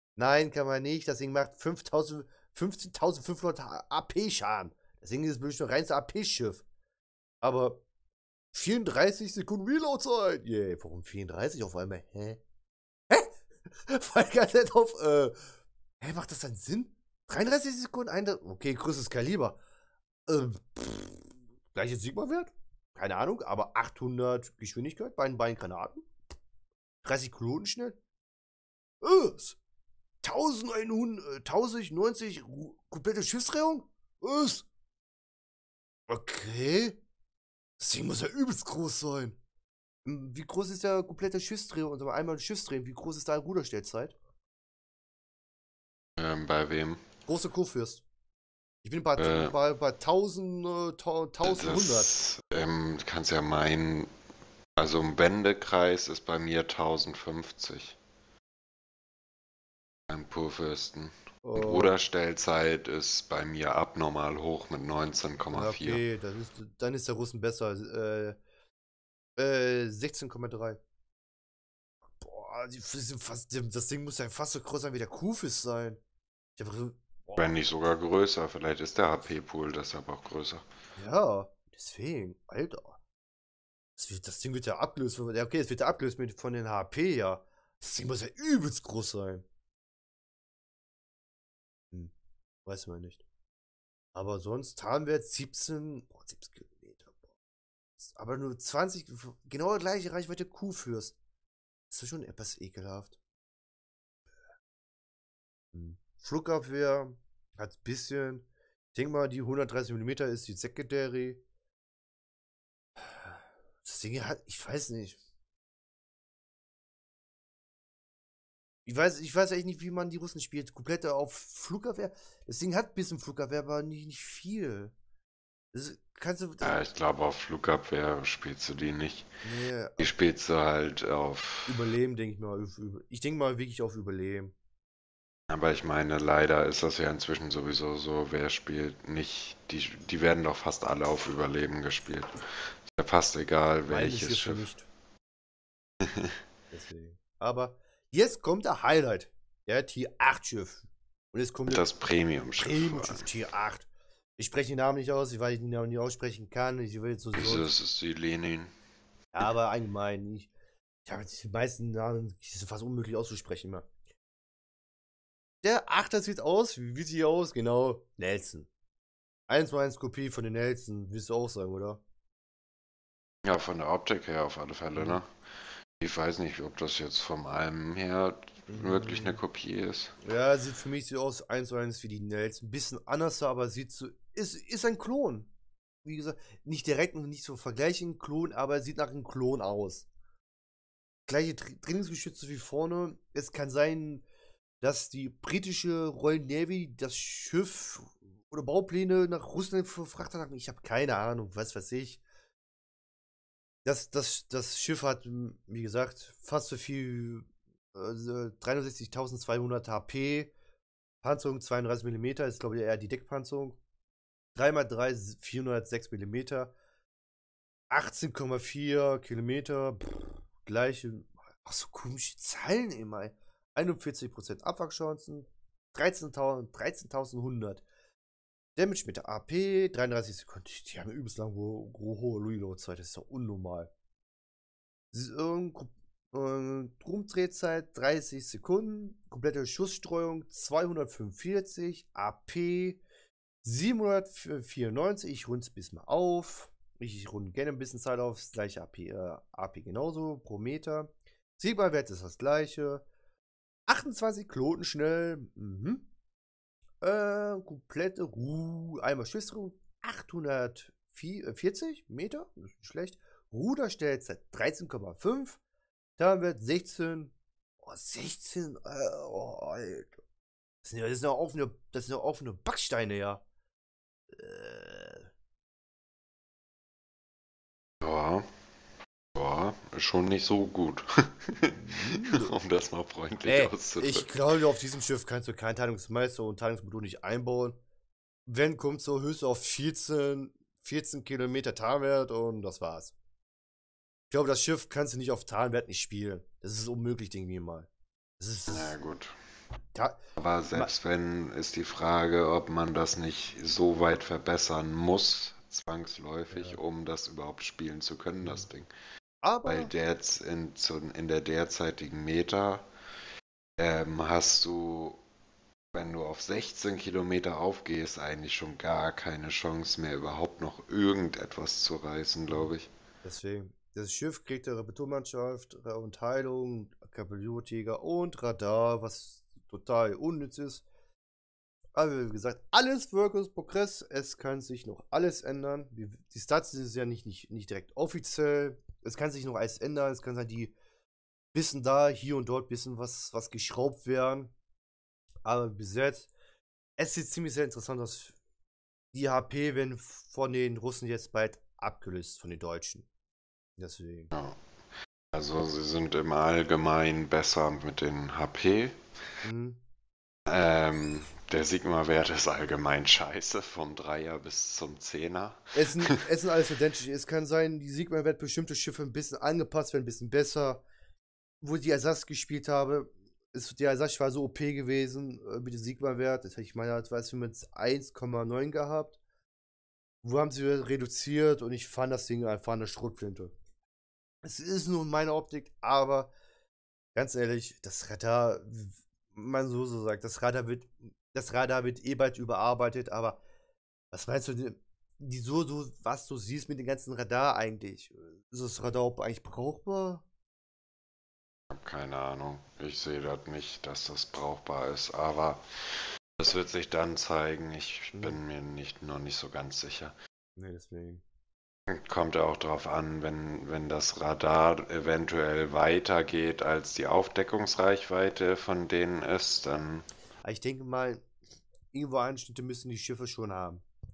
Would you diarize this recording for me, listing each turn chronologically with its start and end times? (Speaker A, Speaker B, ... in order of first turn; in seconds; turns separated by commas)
Speaker A: 0.1-6.6, Speaker A: 7.4-7.8, Speaker A: 8.5-12.4, Speaker A: 13.1-15.3, Speaker A: 16.0-19.6, Speaker A: 20.3-26.0, Speaker A: 27.0-28.0, Speaker A: 29.0-29.6, Speaker A: 30.2-34.6, Speaker A: 36.1-37.0, Speaker A: 37.8-39.4, Speaker A: 40.0-44.1, Speaker B: 46.2-47.0, Speaker A: 47.3-48.0, Speaker A: 48.8-52.1, Speaker B: 49.2-49.5, Speaker B: 51.4-54.1, Speaker B: 54.8-58.0, Speaker B: 60.1-66.0, Speaker A: 61.4-61.9, Speaker A: 65.5-68.4, Speaker A: 69.4-70.8, Speaker A: 72.2-76.0, Speaker A: 76.6-77.5, Speaker B: 77.3-80.6, Speaker A: 81.0-83.0, Speaker A: 84.0-89.4, Speaker A: 92.6-93.2, Speaker A: 94.1-97.2, Speaker A: 98.0-101.2, Speaker A: 101.9-103.2, Speaker A: 105.7-111.4, Speaker A: 113.0-115.2, Speaker A: 118.8-124.9, Speaker A: 125.7-126.8, Speaker B: 126.6-129.3, Speaker A: 129.4-130.1, Speaker B: 130.0-131.7, Speaker A: 131.7-134.5, Speaker B: 135.5-144.7, Speaker A: 143.9-144.9, Speaker B: 146.0-146.4, Speaker A: 146.7-151.8, Speaker B: 151.7-153.3, Speaker A: 152.6-157.7, Speaker B: 157.3-158.7, Speaker A: 159.3-160.5, Speaker A: 161.1-163.8, Speaker A: 165.6-168.7, Speaker A: 169.5-172.0, Speaker B: 173.4-175.3, Speaker A: 174.9-175.2, Speaker B: 176.0-180.1, Speaker A: 178.7-179.4, Speaker A: 180.2-185.5, Speaker A: 186.0-190.1, Speaker A: 191.3-194.2, Speaker A: 194.8-202.2, Speaker A: 203.8-210.5, Speaker A: 211.2-213.8, Speaker A: 214.5-216.7, Speaker A: 217.9-227.8, Speaker A: 228.8-233.9, Speaker A: 235.1-243.0, Speaker A: 243.6-253.0, Speaker A: 253.9-256.1, Speaker A: 257.0-265.6, Speaker A: 266.2-270.1, Speaker A: 270.8-273.4, Speaker A: 274.3-275.3, Speaker B: 278.0-278.4, Speaker B: 279.4-284.3, Speaker A: 281.7-282.5, Speaker A: 283.4-287.8, Speaker A: 288.4-293.1, Speaker A: 294.3-297.9, Speaker A: 298.4-298.9, Speaker B: 298.7-299.3, Speaker B: 300.4-308.9, Speaker A: 306.5-306.8, Speaker A: 309.4-309.9, Speaker B: 309.6-312.9, Speaker B: 313.8-315.2, Speaker B: 315.9-322.9, Speaker A: 323.2-330.8, Speaker A: 331.9-340.8, Speaker A: 341.5-344.5, Speaker A: 345.4-346.3, Speaker A: 347.0-348.3, Speaker A: 349.1-353.0, Speaker A: 353.8-354.3, Speaker B: 354.3-354.6, Speaker B: 355.3-359.0, Speaker A: 359.4-359.8, Speaker B: 360.5-366.2, Speaker A: 365.7-370.8, Speaker A: 371.6-379.2, Speaker A: 380.2-383.5, Speaker A: 384.4-386.3, Speaker A: 387.1-393.4, Speaker A: 394.1-400.2, Speaker B: 401.7-410.1, Speaker A: 408.1-408.4, Speaker A: 410.6-411.2, Speaker B: 411.9-420.1, Speaker A: 420.4-421.2, Speaker A: 421.9-423.8